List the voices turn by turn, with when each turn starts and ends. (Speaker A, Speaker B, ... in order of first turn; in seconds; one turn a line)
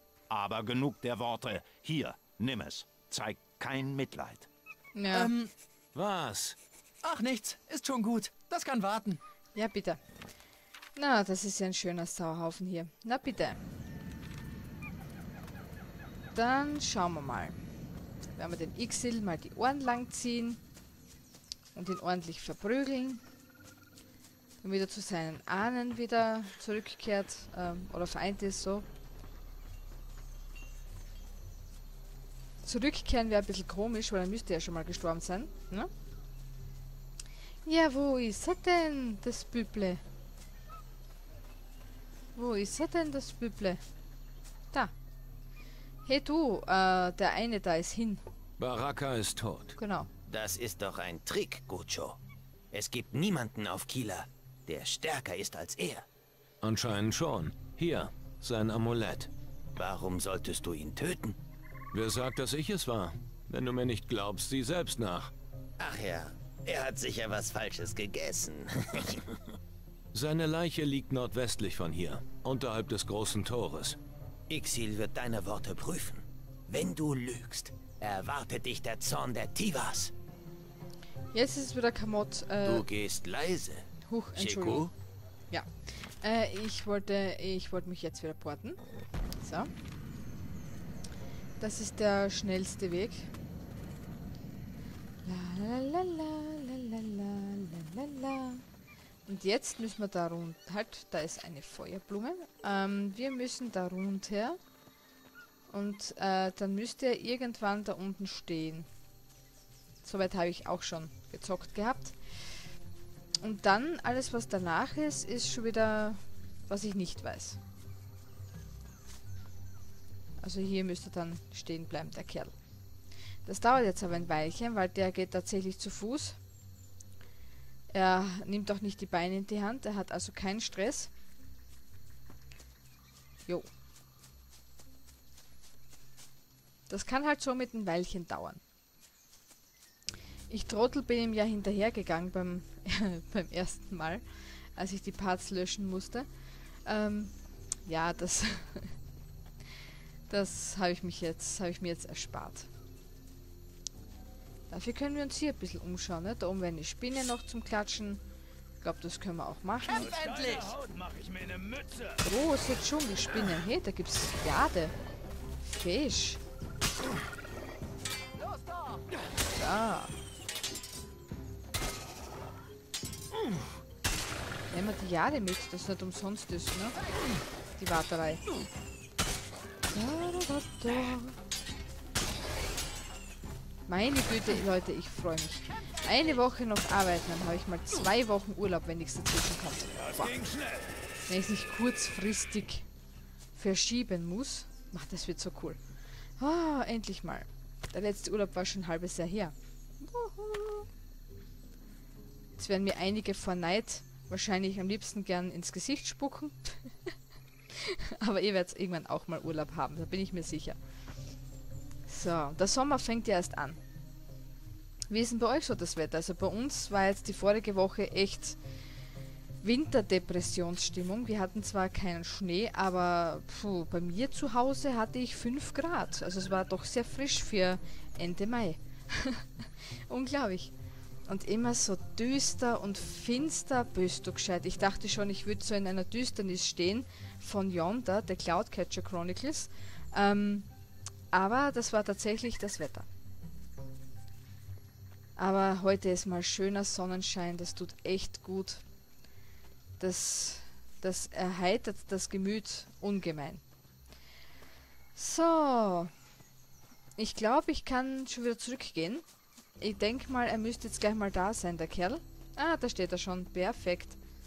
Speaker A: 0.3-4.5
Speaker B: 5.0-5.3
Speaker C: 5.1-5.5
Speaker D: 5.9-6.6
Speaker C: 7.0-9.2
Speaker B: 9.6-10.0
Speaker B: 11.0-13.6
Speaker B: 16.4-17.6
Speaker B: 18.4-20.6
Speaker B: 21.8-23.2
Speaker B: 24.6-28.9
Speaker B: 32.6-35.9
Speaker B: 37.7-40.0
Speaker B: 42.4-43.8
Speaker B: 46.1-48.2
Speaker D: 48.6-49.8
Speaker B: 49.8-50.1
Speaker E: 50.3-52.2
Speaker E: 52.7-56.1
Speaker D: 56.6-59.3
Speaker E: 59.8-61.4
Speaker D: 61.9-65.3
Speaker E: 65.8-69.2
Speaker D: 70.1-74.0
Speaker E: 74.5-80.1
Speaker B: 81.3-82.9
Speaker E: 82.6-84.9
Speaker B: 84.0-84.9
Speaker B: 85.5-88.8
Speaker B: 89.4-89.7
Speaker B: 91.6-93.3
Speaker B: 95.2-98.6
Speaker B: 99.3-104.6
Speaker B: 105.7-108.9
Speaker B: 110.0-112.6
Speaker B: 113.4-117.6
Speaker B: 120.4-122.5
Speaker B: 123.5-126.4
Speaker B: 127.9-131.1
Speaker B: 136.9-138.6
Speaker B: 140.5-144.2
Speaker B: 144.8-146.3
Speaker B: 146.8-148.9
Speaker B: 150.3-152.7
Speaker B: 154.7-158.2
Speaker B: 158.8-160.1
Speaker C: 159.9-161.9
Speaker B: 162.2-164.9
Speaker B: 165.6-166.4
Speaker C: 168.4-169.1
Speaker B: 169.5-170.1
Speaker B: 174.7-177.0
Speaker B: 177.8-178.4
Speaker B: 179.9-181.4
Speaker B: 183.9-190.4
Speaker B: 191.3-192.9
Speaker B: 193.6-195.8
Speaker B: 196.4-200.9
Speaker B: 202.6-207.1
Speaker B: 207.7-210.8
Speaker B: 212.1-213.8
Speaker B: 215.1-218.6
Speaker B: 219.6-230.7
Speaker B: 231.3-240.7
Speaker B: 241.3-243.1
Speaker B: 245.4-248.8
Speaker B: 250.0-253.6
Speaker B: 255.2-256.1
Speaker B: 257.2-259.2
Speaker B: 259.8-264.2